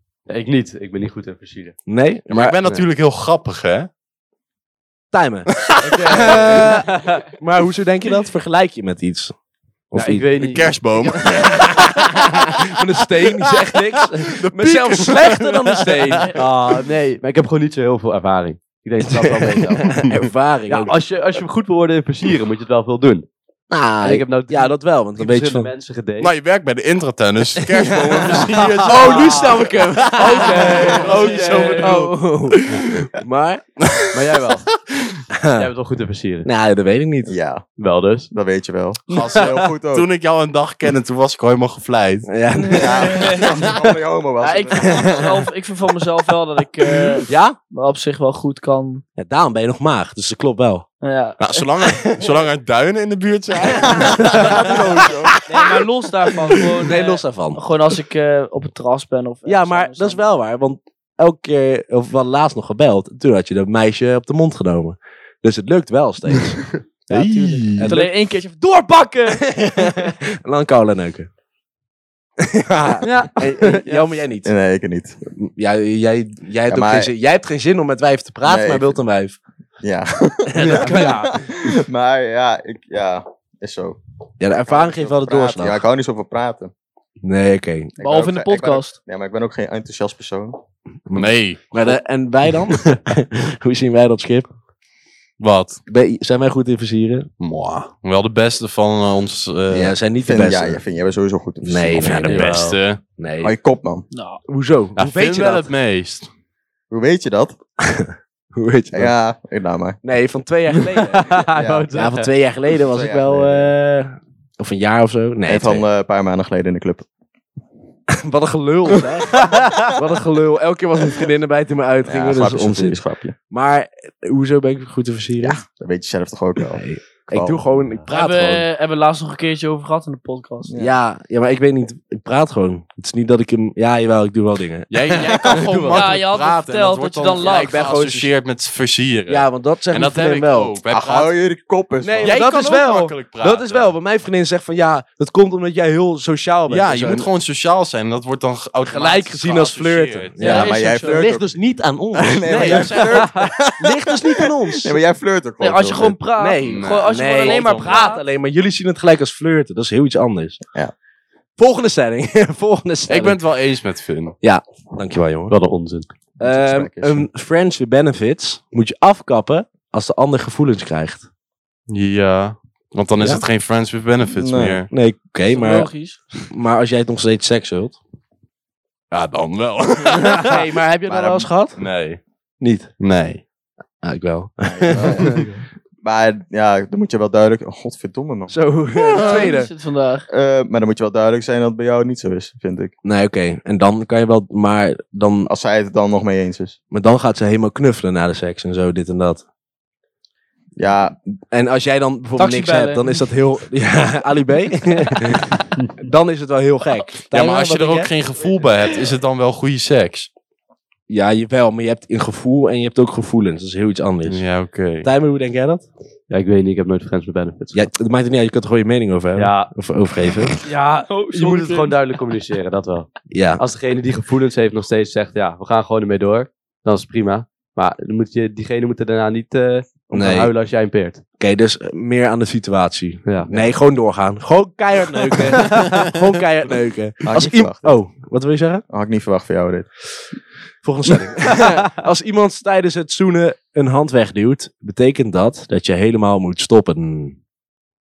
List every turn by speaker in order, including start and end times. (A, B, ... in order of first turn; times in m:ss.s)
0:00.3-0:01.8 A
0:01.9-0:02.6 B
0:02.3-0:03.9 C
0:05.1-0:09.3 B
0:05.6-0:06.7 C
0:05.9-0:07.2 A
0:09.9-0:10.7 B
0:09.9-0:11.2 A
0:10.4-0:16.4 C
0:11.2-0:16.3 B
0:16.3-0:20.0 A
0:19.0-0:20.9 B
0:19.9-0:20.2 C
0:20.7-0:23.3 A
0:23.7-0:25.7 B
0:24.0-0:26.3 A
0:26.2-0:33.0 C
0:27.6-0:33.8 B
0:28.6-0:29.5 A
0:30.1-0:32.0 A
0:30.4-0:32.0 D
0:33.8-0:35.2 C
0:34.1-0:34.7 A
0:35.3-0:35.7 B
0:35.5-0:36.5 A
0:36.4-0:37.3 B
0:37.3-0:37.6 E
0:37.8-0:38.3 A
0:38.3-0:40.1 E
0:39.1-0:39.5 A
0:39.1-0:42.3 C
0:42.3-0:43.2 B
0:42.6-0:43.5 D
0:42.7-0:45.3 E
0:43.4-0:43.7 C
0:44.4-0:49.0 D
0:47.3-0:47.6 B
0:49.2-0:50.8 B
0:51.0-0:51.7 D
0:51.4-0:55.0 C
0:51.9-0:52.4 B
0:53.6-0:55.8 B
0:53.9-0:55.3 E
0:55.4-1:00.2 D
0:56.5-0:57.6 B
0:59.4-1:08.1 B
1:07.1-1:08.0 C
1:07.8-1:10.1 D
1:09.3-1:11.3 B
1:12.4-1:14.5 B
1:13.0-1:14.1 A
1:14.4-1:15.2 E
1:15.4-1:19.4 B
1:16.7-1:17.1 E
1:18.4-1:19.0 E
1:19.8-1:24.0 E
1:20.5-1:21.4 B
1:24.4-1:25.8 B
1:24.6-1:26.7 E
1:27.2-1:27.9 B
1:28.0-1:30.6 E
1:28.0-1:28.9 D
1:31.1-1:34.5 B
1:31.1-1:31.9 C
1:35.4-1:35.8 C
1:35.9-1:37.3 B
1:37.4-1:40.0 C
1:39.7-1:40.8 B
1:40.2-1:42.4 E
1:41.6-1:43.5 B
1:42.2-1:43.0 C
1:42.3-1:42.8 A
1:43.4-1:44.0 E
1:44.1-1:44.4 D
1:44.5-1:45.7 B
1:45.0-1:46.3 C
1:46.9-1:47.5 E
1:47.8-1:49.1 B
1:48.9-1:50.0 E
1:50.0-1:51.4 B
1:50.9-1:52.3 A
1:51.5-1:51.9 E
1:51.9-1:55.8 B
1:52.9-1:53.7 E
1:55.4-1:57.0 E
1:58.1-2:05.6 B
2:02.0-2:03.3 E
2:05.4-2:07.6 E
2:06.7-2:08.7 B
2:08.1-2:10.7 D
2:10.6-2:11.0 E
2:10.8-2:16.0 B
2:14.9-2:21.3 C
2:15.2-2:17.8 D
2:17.4-2:18.3 B
2:19.3-2:20.7 B
2:20.9-2:22.4 E
2:22.0-2:27.3 B
2:22.2-2:23.9 C
2:26.7-2:30.8 C
2:28.8-2:35.0 B
2:30.4-2:31.2 D
2:30.4-2:31.5 E
2:32.1-2:36.2 E
2:32.5-2:33.0 C
2:35.6-2:38.2 D
2:36.4-2:40.6 B
2:36.6-2:38.1 C
2:41.6-2:43.4 B
2:43.1-2:44.4 C
2:44.4-2:45.5 B
2:45.5-2:46.1 A
2:46.4-2:47.3 E
2:46.4-2:51.2 B
2:51.9-2:54.9 C
2:54.4-2:54.8 E
2:54.9-2:55.9 B
2:55.5-2:56.2 D
2:56.4-2:58.0 B
2:59.1-3:00.7 C
3:00.1-3:01.8 B
3:01.1-3:01.5 E
3:01.8-3:02.2 C
3:02.6-3:02.9 B
3:03.0-3:03.4 C
3:04.0-3:05.4 B
3:04.7-3:05.4 E
3:06.0-3:08.5 E
3:08.5-3:09.7 B
3:09.1-3:10.3 D
3:09.1-3:09.5 C
3:10.3-3:12.9 E
3:13.0-3:15.5 B
3:15.4-3:16.8 E
3:16.9-3:19.4 B
3:20.8-3:21.2 E
3:21.5-3:28.1 B
3:22.4-3:23.2 D
3:27.3-3:30.3 C
3:31.1-3:34.4 B
3:34.2-3:35.1 C
3:35.0-3:35.8 B
3:36.3-3:37.8 A
3:37.7-3:40.6 B
3:39.3-3:39.7 A
3:40.6-3:41.9 D
3:41.2-3:51.2 A
3:43.3-3:43.6 B
3:50.1-3:50.5 B
3:51.4-3:58.8 B
3:53.2-3:53.5 A
3:55.8-3:56.1 C
3:57.2-3:58.0 E
3:58.9-3:59.9 E
4:00.8-4:07.4 B